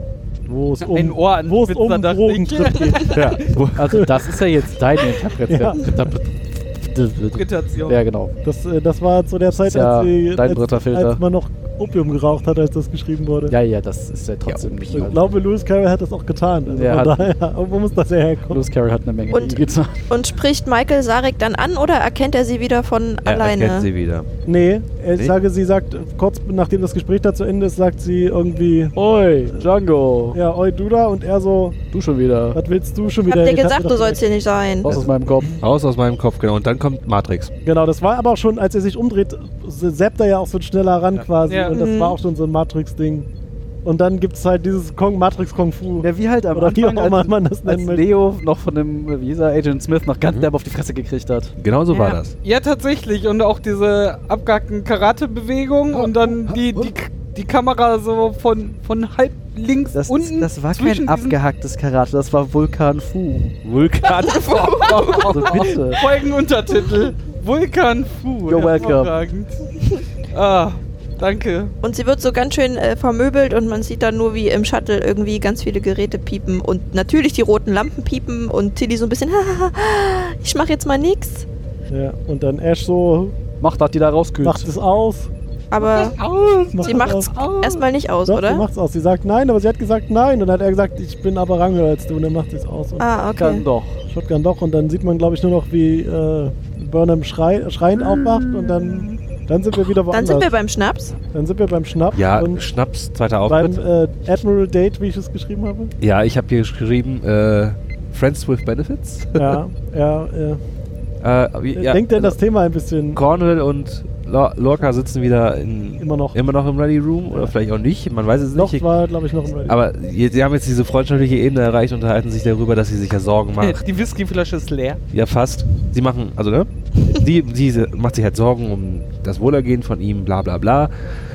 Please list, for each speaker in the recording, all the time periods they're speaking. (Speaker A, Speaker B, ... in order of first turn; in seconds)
Speaker A: 0.5-4.2, 5.5-6.1, 8.4-13.6, 14.9-18.6, 24.4-28.9, 30.3-31.8, 32.5-34.2, 37.6-43.3, 43.8-48.0, 81.9-83.4, 84.4-85.3, 86.7-87.4, 88.3-93.0, 94.1-100.5, 101.3-102.7, 103.5-105.9, 109.4-110.6, 111.7-113.2, 116.0-116.4, 118.5-119.8
Speaker B: 0.9-3.2, 7.3-8.0, 41.5-41.8, 51.9-61.4, 64.4-69.5, 70.3-71.7, 85.8-87.8, 123.6-125.0
Speaker C: 3.1-4.1, 14.4-14.8, 23.2-24.3, 34.8-37.5, 50.2-50.5, 51.6-52.4, 55.9-56.9, 63.6-64.9, 102.1-103.8, 106.0-109.6, 111.2-112.4, 113.2-118.8, 119.7-123.8, 125.1-131.1
Speaker D: 3.8-8.3, 9.5-11.2, 13.5-15.3, 16.7-17.3, 18.5-19.9, 28.9-30.4, 31.9-32.6, 34.9-35.6, 46.0-51.5, 59.9-63.6, 65.3-66.0, 68.5-69.1, 83.6-84.7, 93.4-94.0, 98.1-98.6
Speaker E: 19.3-23.9, 33.3-34.9, 41.7-42.2, 64.2-65.5, 71.8-81.5, 85.7-86.2, 86.8-88.7, 93.0-93.7, 100.1-101.2